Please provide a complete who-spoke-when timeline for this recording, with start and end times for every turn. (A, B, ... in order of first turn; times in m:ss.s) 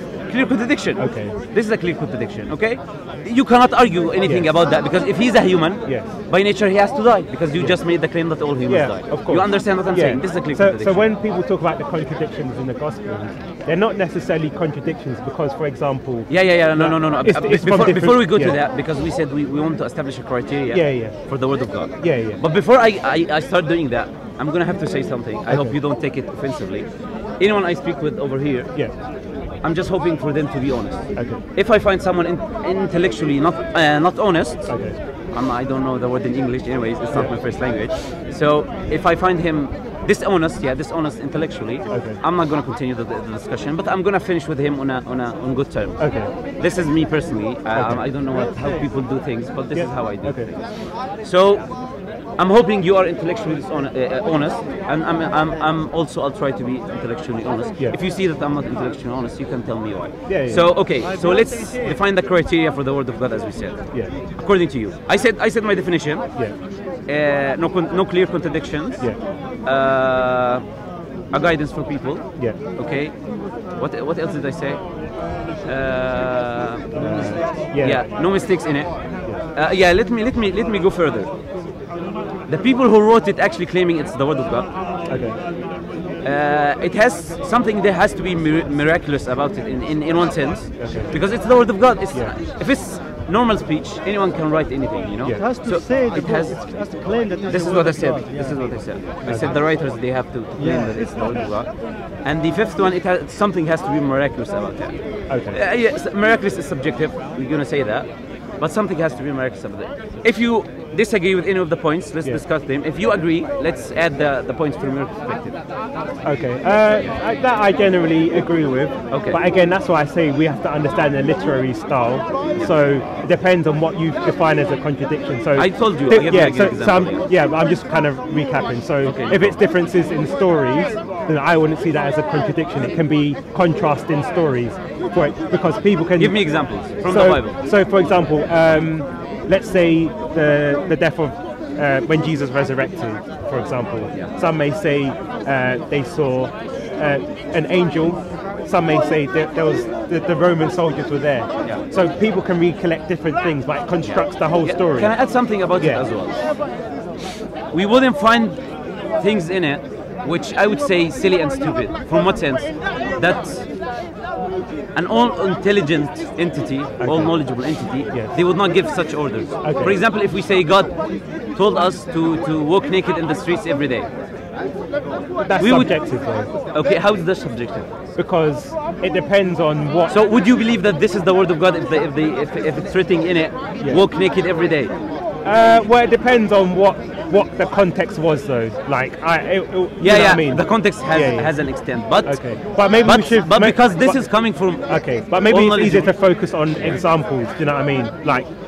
0:00.3-0:11.0 A
0:01.0-0:01.3 B
0:08.7-0:18.6 B
0:16.3-0:26.9 A
0:20.7-0:21.2 B
0:22.0-0:22.4 B
0:25.5-0:25.7 B
0:27.4-0:28.7 A
0:29.6-0:34.7 A
0:31.1-0:31.4 B
0:34.7-0:35.0 B
0:35.3-0:51.6 A
0:41.9-0:42.2 B
0:46.0-0:46.3 B
0:47.7-0:48.0 B
0:49.7-0:50.5 B
0:52.4-1:03.8 A
1:00.3-1:00.6 B
1:04.3-1:06.3 A
1:07.1-1:09.1 A
1:09.6-1:10.6 A
1:11.3-1:13.1 A
1:13.8-1:14.8 A
1:15.6-1:18.9 A
1:16.9-1:18.0 B
1:19.5-1:21.3 A
1:22.5-1:24.7 A
1:25.1-1:25.4 B
1:26.2-1:36.6 A
1:30.8-1:31.1 B
1:35.3-1:38.7 C
1:37.5-1:41.7 A
1:39.2-1:39.5 B
1:40.6-1:41.4 C
1:42.2-1:48.1 A
1:45.3-1:45.6 B
1:48.6-1:55.6 A
1:56.2-2:16.4 B
1:59.1-1:59.4 A
2:05.5-2:07.2 A
2:09.0-2:09.6 A
2:16.2-2:17.6 A
2:17.0-2:35.1 B
2:34.0-2:36.4 A
2:35.8-2:36.0 B
2:37.7-2:38.6 A
2:39.2-2:43.7 A
2:44.9-2:51.0 A
2:47.0-2:47.4 B
2:49.6-2:50.0 B
2:51.5-2:54.1 A
2:55.4-2:56.5 B
2:55.6-2:56.0 A
2:56.7-2:57.9 A
2:58.2-3:00.2 B
3:00.1-3:04.9 A
3:05.4-3:11.5 B
3:10.0-3:12.4 A
3:12.2-3:14.2 B
3:13.0-3:16.1 A
3:14.9-3:18.5 B